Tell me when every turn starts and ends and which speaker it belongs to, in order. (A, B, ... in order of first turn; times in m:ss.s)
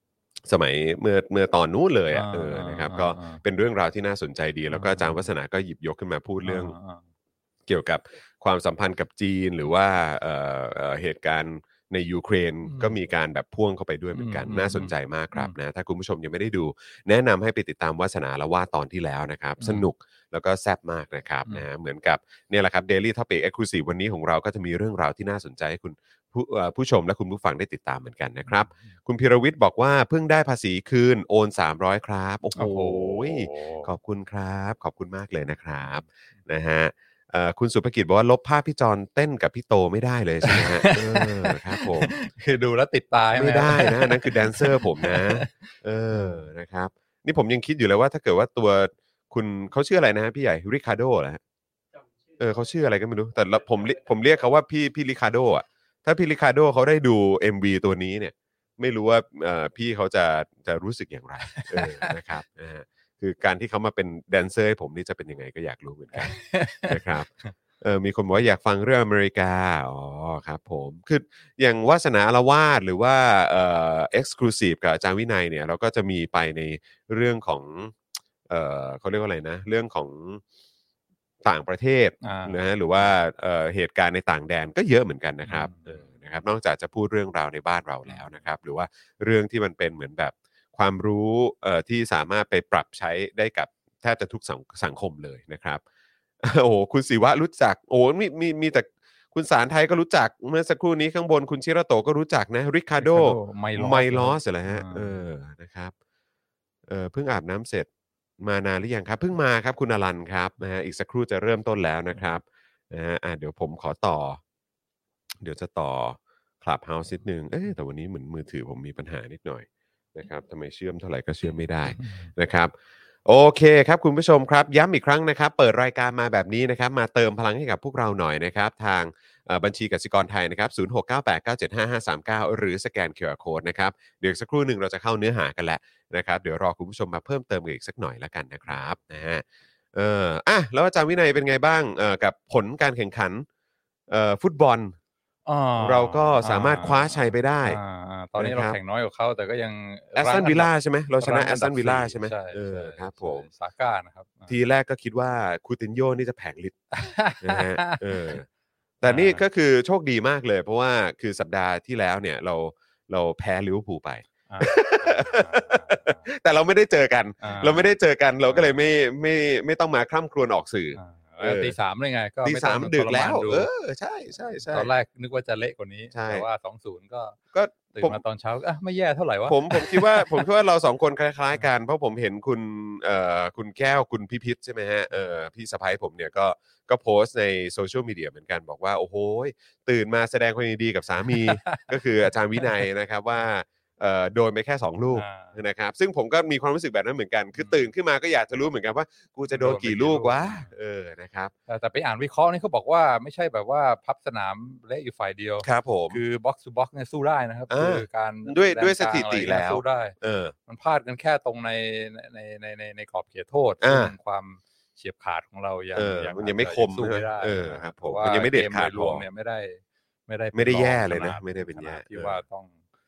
0:00.4-0:06.7 A
0:02.1-0:03.4 B
0:04.7-0:05.3 B
0:06.4-0:07.0 B
0:07.7-0:42.2 A
0:12.6-0:13.0 B
0:14.1-0:15.5 B
0:19.6-0:19.9 B
0:28.5-0:28.9 B
0:32.6-0:33.9 B
0:40.4-0:46.4 B
0:43.4-0:51.4 A
0:52.4-1:07.3 A
1:01.5-1:02.1 B
1:06.1-1:07.5 B
1:07.8-1:18.0 A
1:18.5-1:20.4 A
1:21.4-1:35.8 A
1:22.2-1:23.1 B
1:25.4-1:26.1 B
1:36.4-1:45.9 A
1:43.0-1:45.2 B
1:46.9-1:47.9 A
1:48.4-1:54.4 A
1:55.4-2:02.7 A
2:02.0-2:02.3 B
2:03.2-2:23.5 A
2:24.1-2:25.0 A
2:25.5-2:34.6 B
2:25.8-2:27.8 A
2:28.4-2:28.8 A
2:30.2-2:33.5 A
2:34.5-2:38.5 A
2:36.9-2:38.4 B
2:39.0-2:51.8 A
2:39.0-2:39.4 B
2:44.5-2:46.3 B
2:47.4-2:47.9 B
2:48.5-2:48.8 B
2:50.9-2:53.7 B
2:52.4-2:54.9 A
2:54.7-2:57.4 B
2:56.1-2:56.5 A
2:57.5-2:58.2 A
2:57.9-3:00.4 B
2:59.5-3:21.5 A
3:11.4-3:11.9 B
3:15.1-3:15.6 B
3:17.6-3:17.9 B
3:19.5-3:20.7 B
3:21.7-3:30.2 B
3:25.6-3:26.2 A
3:27.7-3:30.5 A
3:30.7-3:42.8 B
3:33.8-3:34.1 A
3:36.0-3:39.2 A
3:40.5-3:42.4 A